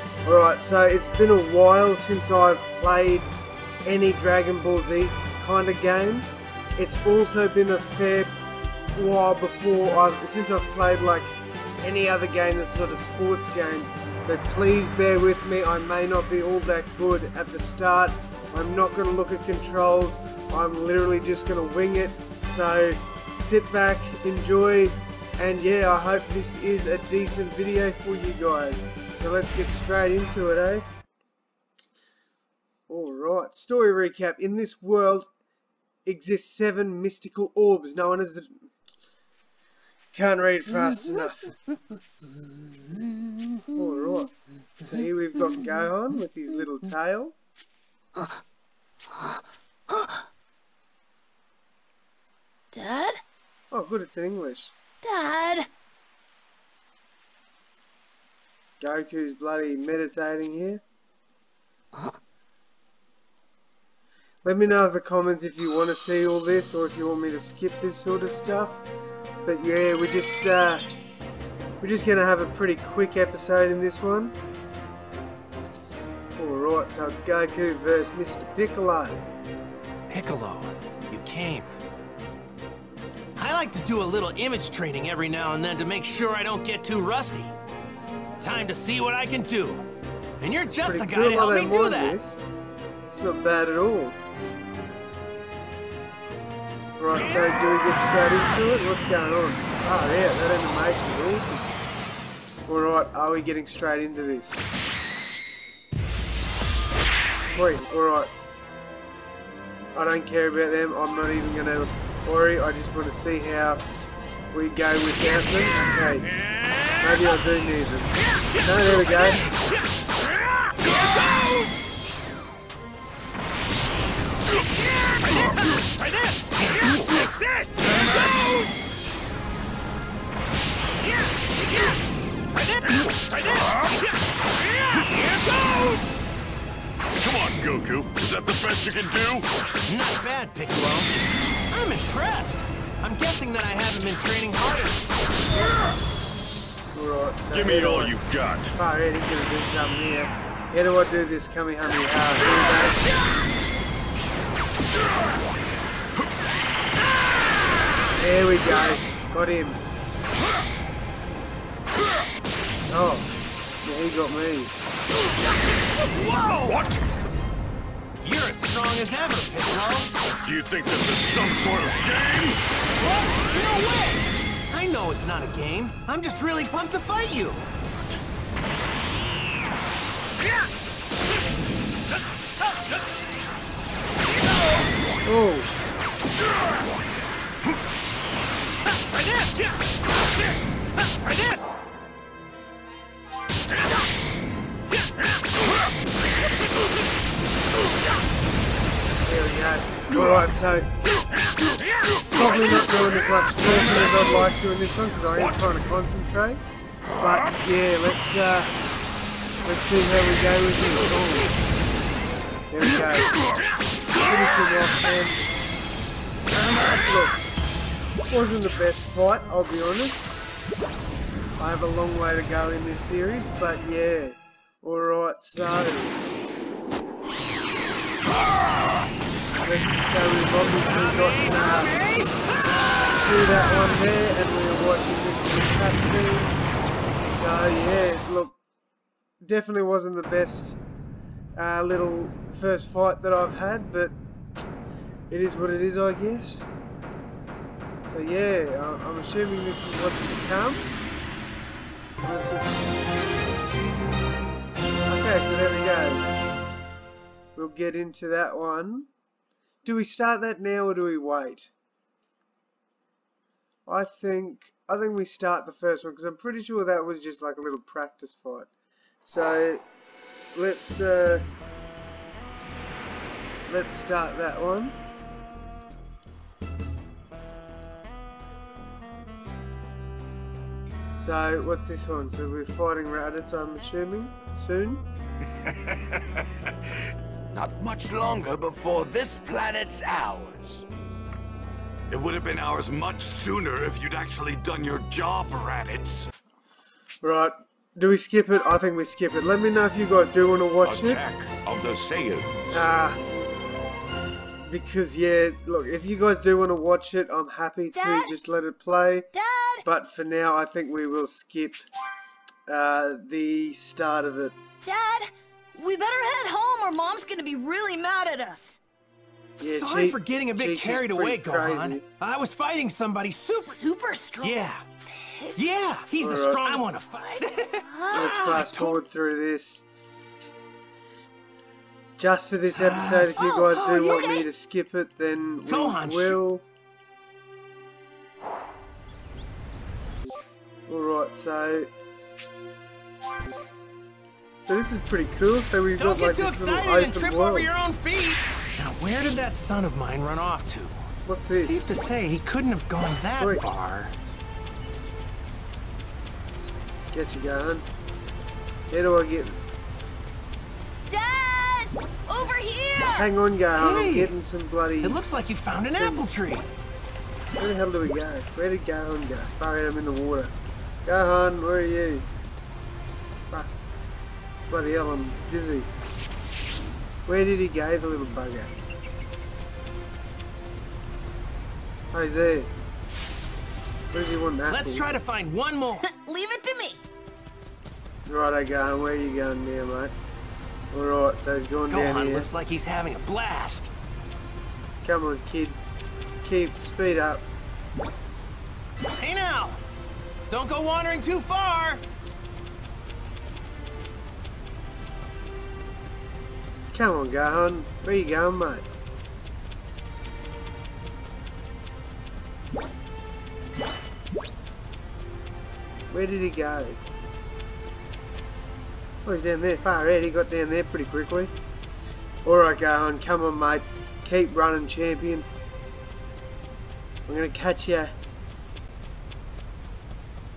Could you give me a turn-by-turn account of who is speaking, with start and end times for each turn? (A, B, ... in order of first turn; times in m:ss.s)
0:00.2-0:03.3 A
0:03.8-0:08.3 A
0:09.0-0:30.9 A
0:32.9-0:35.3 A
0:36.1-0:38.6 A
0:40.1-0:41.6 A
0:43.7-0:47.3 A
0:49.9-0:50.2 B
0:52.7-0:53.2 B
0:53.7-0:54.8 A
0:55.0-0:55.7 B
0:58.8-1:00.8 A
1:04.4-1:08.8 A
1:09.4-1:10.8 A
1:11.8-1:14.4 A
1:16.4-1:19.2 A
1:20.1-1:21.8 C
1:23.4-1:27.6 C
1:28.4-1:29.8 C
1:30.4-1:32.2 C
1:30.6-1:32.4 A
1:33.1-1:34.2 A
1:37.0-1:41.7 A
1:42.7-1:44.7 A
1:47.4-1:48.3 A
1:50.0-1:53.8 A
1:54.5-1:56.3 A
1:57.0-1:59.5 A
1:59.1-1:59.4 C
2:00.7-2:01.8 C
2:04.9-2:08.8 C
2:11.5-2:12.0 C
2:12.5-2:16.1 C
2:17.2-2:19.5 D
2:19.9-2:21.1 C
2:21.7-2:25.1 C
2:26.9-2:28.2 A
2:27.5-2:28.7 D
2:28.8-2:33.0 A
2:38.1-2:39.8 A
2:42.9-2:43.3 A
2:43.8-2:44.7 A
2:46.0-2:46.8 C
2:46.7-2:47.0 D
2:48.2-2:50.1 C
2:50.4-2:52.6 D
2:53.0-2:57.7 C
3:02.2-3:03.0 C
3:05.2-3:05.7 A
3:09.0-3:09.7 C
3:10.3-3:11.7 C
3:19.2-3:20.9 A
3:22.3-3:26.6 A
3:27.2-3:28.7 A
3:29.6-3:31.6 A
3:32.7-3:33.3 A
3:34.1-3:35.4 A
3:36.5-3:37.4 A
3:38.3-3:40.3 A
3:41.6-3:46.2 A
3:49.6-3:52.0 A
3:50.8-3:52.4 C
3:53.1-3:56.5 A
3:57.3-3:58.6 A
3:59.4-4:00.8 A
4:01.6-4:04.2 A
4:05.3-4:06.7 A
4:08.1-4:10.9 A
4:12.2-4:12.8 A
4:15.1-4:16.3 A
4:17.6-4:19.1 A
4:19.8-4:21.7 A
4:23.9-4:28.7 A
4:29.2-4:29.8 A
4:30.6-4:31.4 A
4:33.7-4:34.9 A
4:41.2-4:45.0 A
4:45.7-4:46.2 D
4:47.5-4:50.8 D
4:52.1-4:56.3 D
4:57.2-5:01.2 A
5:00.8-5:02.8 D
5:02.7-5:03.2 A
5:04.7-5:09.3 A
5:07.9-5:08.3 B
5:09.3-5:09.8 B
5:09.8-5:11.8 A
5:12.7-5:14.6 A
5:14.8-5:18.8 B
5:19.6-5:22.0 A
5:19.6-5:23.8 C
5:23.6-5:25.6 B
5:24.4-5:24.8 C
5:25.6-5:29.0 C
5:26.2-5:26.8 A
5:27.2-5:28.4 B
5:28.1-5:29.9 A
5:32.2-5:36.6 A
5:32.7-5:34.1 C
5:33.3-5:34.4 B
5:35.7-5:36.4 C
5:40.9-5:41.9 A
5:44.7-5:47.7 A
5:46.0-5:54.1 C
5:51.2-5:51.9 A
5:57.1-5:57.8 A
5:58.9-5:59.6 A
6:01.1-6:03.3 B
6:03.1-6:05.2 A
6:03.8-6:04.4 C
6:05.0-6:06.7 C
6:05.9-6:06.4 A
6:07.6-6:10.5 A
6:11.0-6:12.2 A
6:14.7-6:15.9 A
6:17.2-6:18.7 A
6:22.1-6:22.7 A
6:24.1-6:25.1 A
6:24.7-6:26.0 C
6:26.0-6:27.0 B
6:28.2-6:30.1 A
6:30.9-6:32.5 A
6:31.9-6:33.9 C
6:35.0-6:35.8 A
6:36.4-6:37.4 A
6:39.1-6:39.8 C
6:40.5-6:42.0 C
6:46.9-6:48.9 A
6:56.1-6:57.0 A
6:59.2-7:01.5 A
7:02.4-7:05.5 A
7:07.3-7:08.1 A